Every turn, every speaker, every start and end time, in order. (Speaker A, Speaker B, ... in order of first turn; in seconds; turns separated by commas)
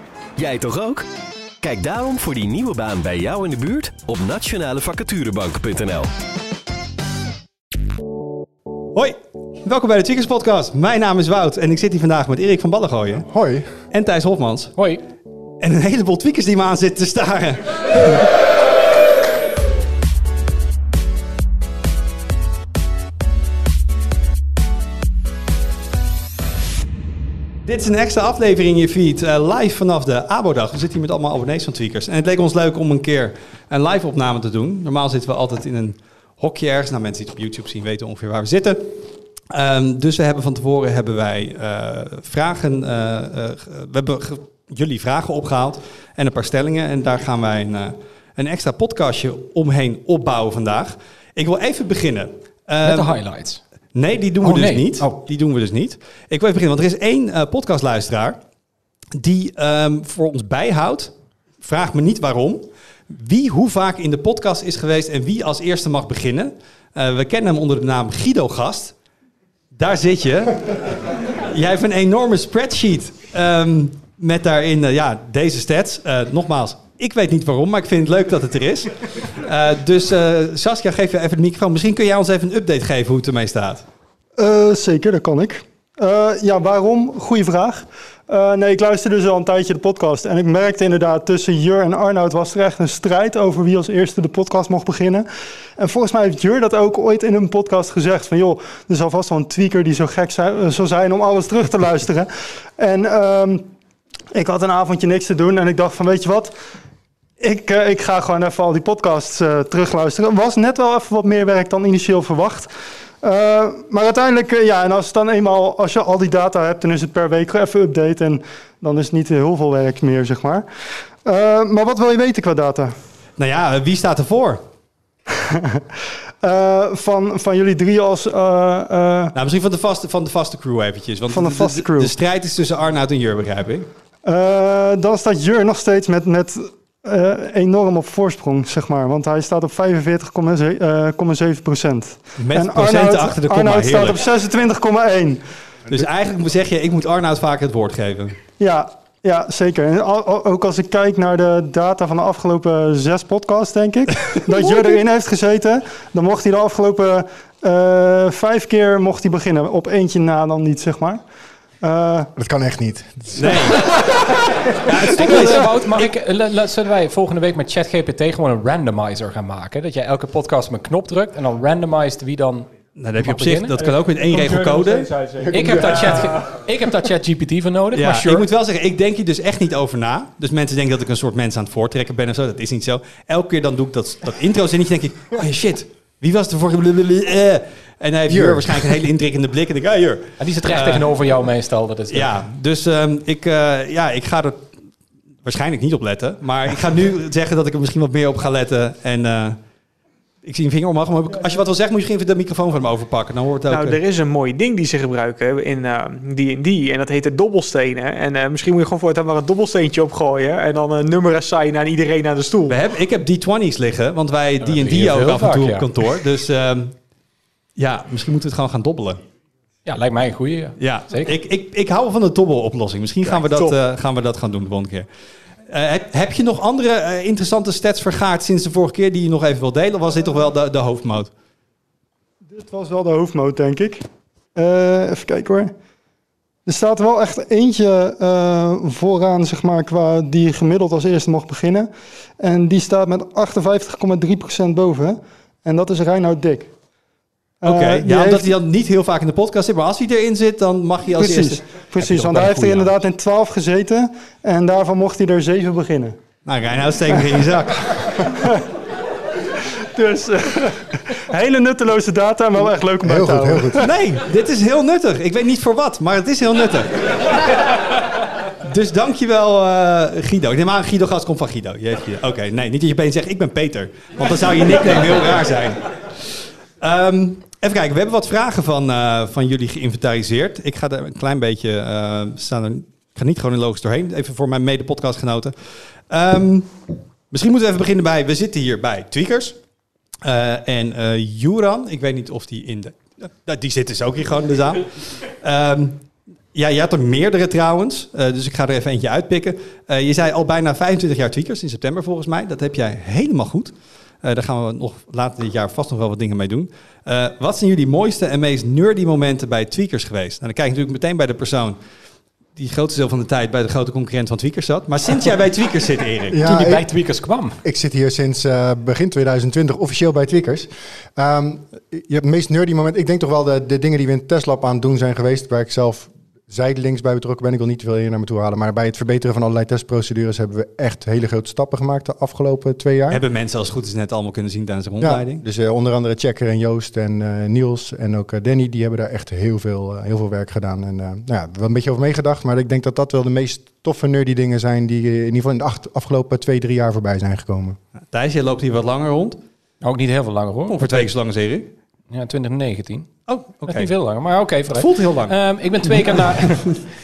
Speaker A: 0.3-1.1, Speaker A: 1.6-6.1, Speaker B: 8.9-13.3, Speaker C: 13.3-13.7, Speaker B: 13.9-14.7, Speaker D: 14.8-15.0, Speaker B: 15.6-18.3, Speaker B: 27.6-38.9, Speaker B: 39.5-53.1, Speaker D: 52.8-53.6, Speaker B: 53.9-58.4, Speaker D: 54.4-55.2, Speaker B: 59.1-68.9, Speaker B: 69.7-83.8, Speaker E: 84.4-95.3, Speaker E: 95.8-103.7, Speaker E: 104.3-106.5, Speaker E: 107.4-112.7, Speaker E: 113.2-120.6, Speaker E: 121.2-122.9, Speaker B: 123.4-124.6, Speaker E: 125.3-125.8, Speaker E: 126.4-129.3, Speaker B: 129.3-133.9, Speaker E: 131.3-132.1, Speaker E: 134.2-146.0, Speaker B: 142.4-144.3, Speaker B: 145.9-148.4, Speaker E: 148.6-161.2, Speaker E: 161.8-162.3, Speaker C: 162.3-163.9, Speaker B: 163.3-163.8, Speaker B: 164.8-166.1, Speaker D: 165.1-172.7, Speaker B: 172.9-175.1, Speaker D: 173.2-173.8, Speaker F: 174.3-176.2, Speaker D: 175.5-178.4, Speaker B: 177.9-191.1, Speaker C: 188.3-189.0, Speaker D: 190.4-192.3, Speaker B: 192.1-194.7, Speaker B: 195.4-199.6, Speaker B: 200.4-204.0, Speaker F: 203.7-212.8, Speaker B: 212.7-216.9, Speaker D: 214.6-215.8, Speaker B: 217.8-219.2, Speaker D: 219.8-221.3, Speaker B: 220.8-225.1, Speaker B: 225.7-231.3, Speaker E: 232.4-234.0, Speaker E: 234.5-235.7, Speaker E: 236.7-241.9, Speaker E: 242.4-246.7, Speaker E: 247.6-248.5, Speaker B: 247.6-252.9, Speaker E: 251.2-256.1, Speaker B: 256.4-258.3, Speaker E: 258.3-258.6, Speaker E: 259.9-263.8, Speaker C: 263.0-263.9, Speaker B: 263.8-267.8, Speaker B: 268.6-286.7, Speaker B: 287.3-289.6, Speaker B: 290.2-311.8, Speaker B: 312.6-316.4, Speaker C: 316.3-316.9, Speaker D: 316.4-317.6, Speaker C: 317.6-333.2, Speaker B: 333.1-335.4, Speaker C: 335.0-347.8, Speaker B: 348.1-349.4, Speaker D: 349.8-351.1, Speaker B: 350.7-351.7, Speaker D: 352.1-353.1, Speaker B: 353.3-353.9, Speaker D: 353.6-356.8, Speaker B: 354.7-355.4